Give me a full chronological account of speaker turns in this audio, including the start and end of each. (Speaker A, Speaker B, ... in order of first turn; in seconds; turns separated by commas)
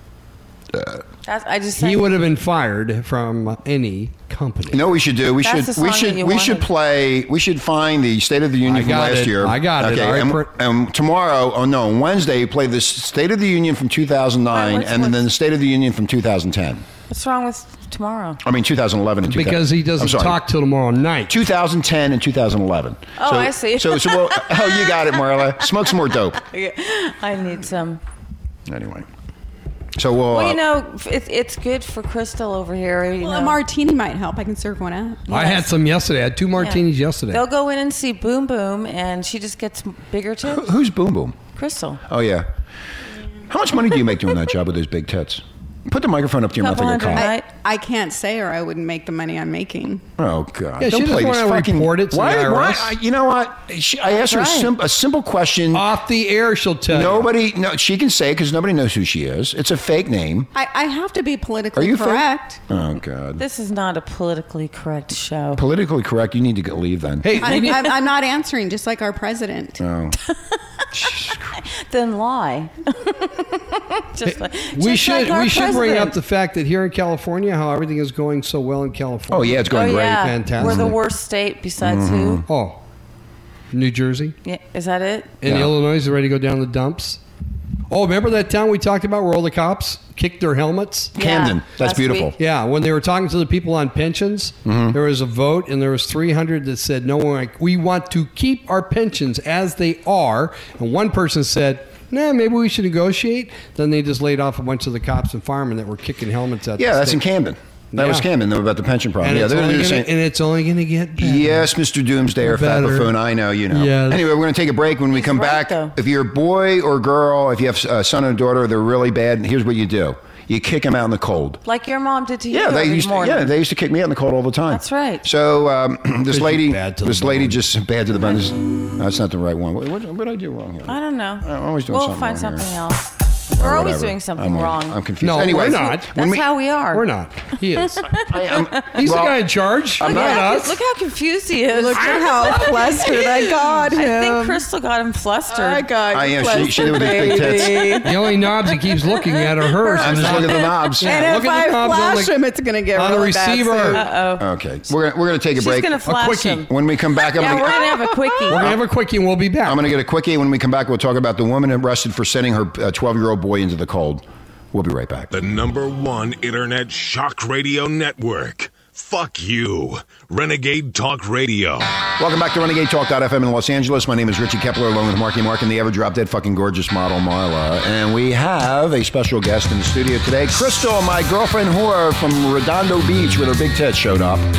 Speaker A: 0.7-1.0, Speaker B: 1.2-2.1, Speaker C: 1.8-4.8, Speaker A: 4.7-16.8, Speaker B: 5.4-6.7, Speaker C: 8.7-10.5, Speaker B: 14.5-15.2, Speaker B: 17.1-18.4, Speaker A: 18.4-20.4, Speaker C: 19.3-21.3, Speaker A: 21.3-26.4, Speaker B: 23.2-28.0, Speaker A: 28.7-29.1, Speaker A: 29.9-30.6, Speaker B: 30.3-33.6, Speaker D: 33.2-35.3, Speaker B: 35.3-35.7, Speaker C: 35.3-37.4, Speaker B: 36.6-40.7, Speaker A: 40.4-41.4, Speaker B: 41.5-42.0, Speaker A: 42.1-42.5, Speaker A: 43.5-47.3, Speaker B: 46.6-47.5, Speaker D: 47.1-50.0, Speaker A: 50.2-55.9, Speaker C: 50.8-52.9, Speaker B: 54.2-54.7, Speaker C: 55.7-57.3, Speaker A: 56.9-60.5, Speaker D: 60.5-62.6, Speaker A: 61.8-63.4, Speaker B: 63.4-65.6, Speaker A: 65.5-67.4, Speaker C: 67.2-67.9, Speaker D: 67.4-69.8, Speaker B: 67.5-67.8, Speaker A: 69.8-70.2, Speaker A: 70.9-71.5, Speaker B: 71.6-76.1, Speaker C: 74.2-80.9, Speaker A: 79.3-81.0, Speaker B: 79.7-82.4, Speaker A: 81.8-82.4, Speaker C: 82.5-82.8, Speaker C: 83.7-84.3, Speaker B: 84.4-85.3, Speaker C: 85.4-87.2, Speaker A: 85.4-85.7, Speaker C: 87.9-91.1, Speaker A: 91.1-92.3, Speaker B: 91.2-92.3, Speaker C: 92.4-107.2, Speaker A: 94.7-95.0, Speaker A: 106.8-110.1, Speaker C: 107.9-108.2, Speaker C: 109.2-111.7, Speaker A: 111.2-121.6, Speaker C: 112.4-113.1, Speaker C: 113.7-114.2, Speaker B: 115.1-115.9, Speaker B: 121.6-123.5, Speaker A: 122.5-132.7, Speaker B: 124.7-125.2, Speaker C: 126.3-127.6, Speaker B: 130.8-135.0, Speaker A: 133.5-136.4, Speaker C: 135.2-136.1, Speaker B: 136.1-137.1, Speaker C: 136.9-138.1, Speaker B: 137.8-138.9, Speaker A: 138.2-139.4, Speaker C: 138.9-140.8, Speaker A: 140.0-140.6, Speaker B: 140.0-150.7, Speaker D: 141.7-144.6, Speaker C: 142.0-142.8, Speaker D: 145.5-148.1, Speaker A: 146.1-148.0, Speaker C: 148.0-152.3, Speaker A: 150.0-151.1, Speaker D: 151.0-154.0, Speaker C: 152.9-154.0, Speaker B: 153.9-154.5, Speaker A: 154.4-157.9, Speaker B: 155.5-156.7, Speaker C: 156.1-156.6, Speaker B: 157.3-158.7, Speaker C: 158.5-159.8, Speaker A: 158.5-158.8, Speaker A: 159.6-165.3, Speaker E: 165.3-171.9, Speaker A: 172.2-184.5